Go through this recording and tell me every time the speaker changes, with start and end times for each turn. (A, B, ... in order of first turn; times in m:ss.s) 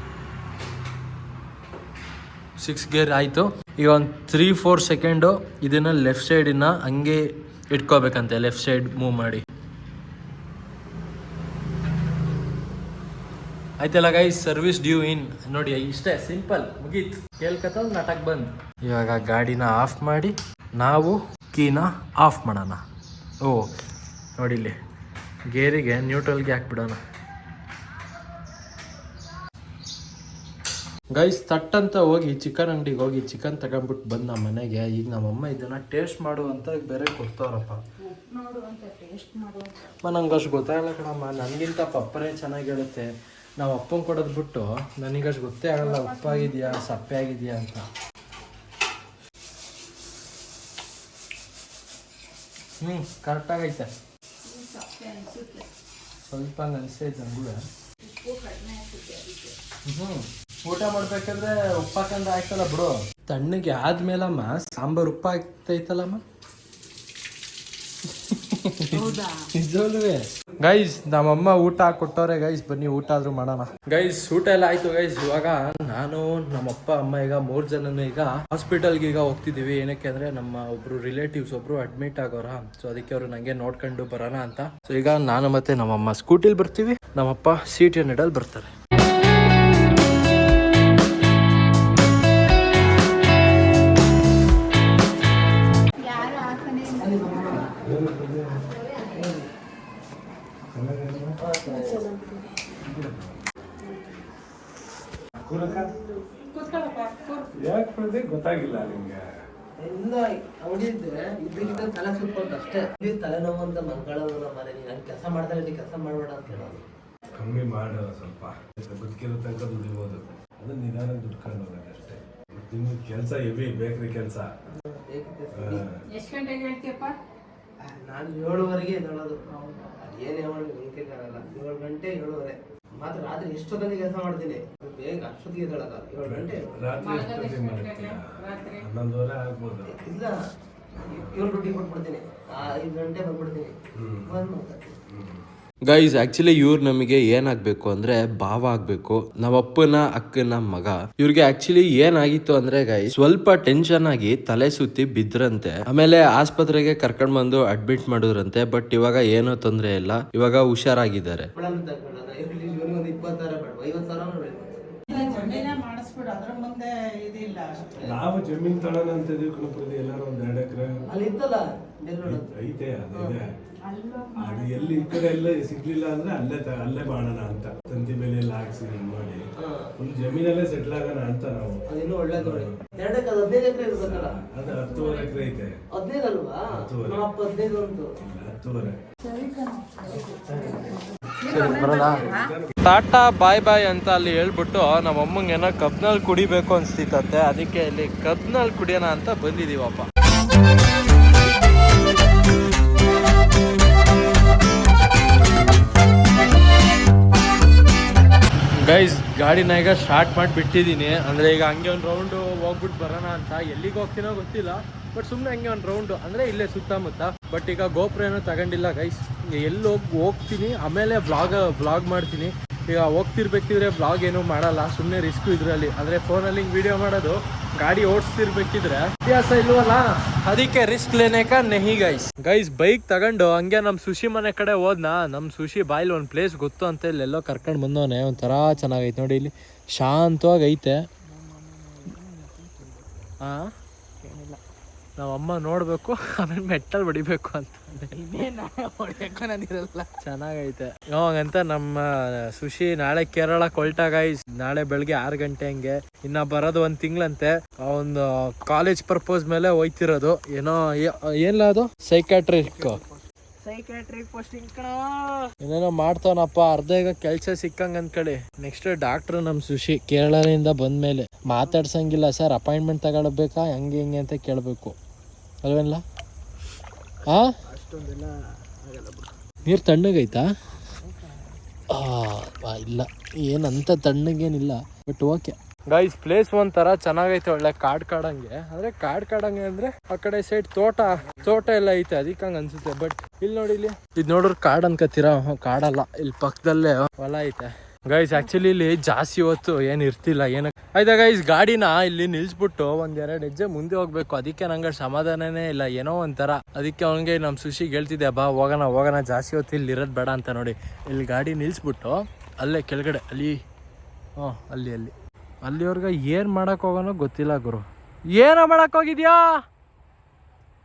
0:02.6-0:09.4 A
0:13.8-0:22.8 A
0:24.4-0:24.8 A
0:25.5-0:27.0 A
0:31.1-0:37.8 A
0:38.0-0:39.8 B
0:40.0-0:47.8 A
0:45.8-0:46.9 B
0:52.8-0:53.9 A
0:54.4-0:55.7 B
0:56.3-0:57.6 A
0:58.0-0:59.6 B
0:59.8-1:06.2 A
1:08.0-1:28.7 A
1:08.9-1:09.5 B
1:36.0-1:37.7 B
1:36.9-1:37.8 C
1:37.7-1:38.8 D
1:38.8-1:39.3 B
1:39.1-1:39.4 C
1:40.7-1:41.4 D
1:41.4-1:42.1 C
1:41.6-1:42.6 B
1:42.8-1:43.4 D
1:43.8-1:44.2 B
1:45.4-1:46.0 D
1:45.7-1:47.5 B
1:47.5-1:49.3 D
1:49.8-1:56.8 C
1:57.3-2:04.5 D
2:04.8-2:05.8 C
2:05.5-2:06.0 D
2:06.1-2:07.2 B
2:07.8-2:16.7 C
2:16.2-2:20.0 D
2:17.0-2:18.8 B
2:19.8-2:20.4 C
2:21.0-2:23.7 C
2:23.9-2:24.4 D
2:24.2-2:25.0 C
2:25.1-2:25.4 D
2:25.8-2:41.5 A
2:41.6-2:45.5 C
2:45.1-2:47.8 B
2:48.0-2:51.0 D
2:51.1-2:52.5 C
2:52.2-2:53.5 D
2:53.1-2:53.4 C
2:53.8-2:55.5 B
2:54.4-3:01.8 D
2:59.6-2:59.9 C
3:01.9-3:04.4 C
3:02.3-3:02.8 D
3:03.9-3:05.8 D
3:04.7-3:05.5 B
3:05.9-3:08.1 C
3:06.7-3:07.2 D
3:08.2-3:09.0 D
3:09.2-3:12.5 B
3:10.3-3:10.8 D
3:11.4-3:12.8 D
3:11.4-3:20.1 A
3:28.7-4:01.0 A
4:01.3-4:02.9 B
4:03.4-4:03.7 A
4:04.2-4:04.6 B
4:05.2-4:23.0 A
4:22.8-4:23.1 B
4:23.6-4:25.5 B
4:25.6-4:35.0 A
4:35.6-4:36.0 A
4:37.2-4:37.6 A
4:37.7-4:39.3 C
4:39.6-4:40.5 A
4:41.0-4:41.5 C
4:41.9-5:13.6 A
5:14.4-5:15.1 A
5:15.6-5:19.6 A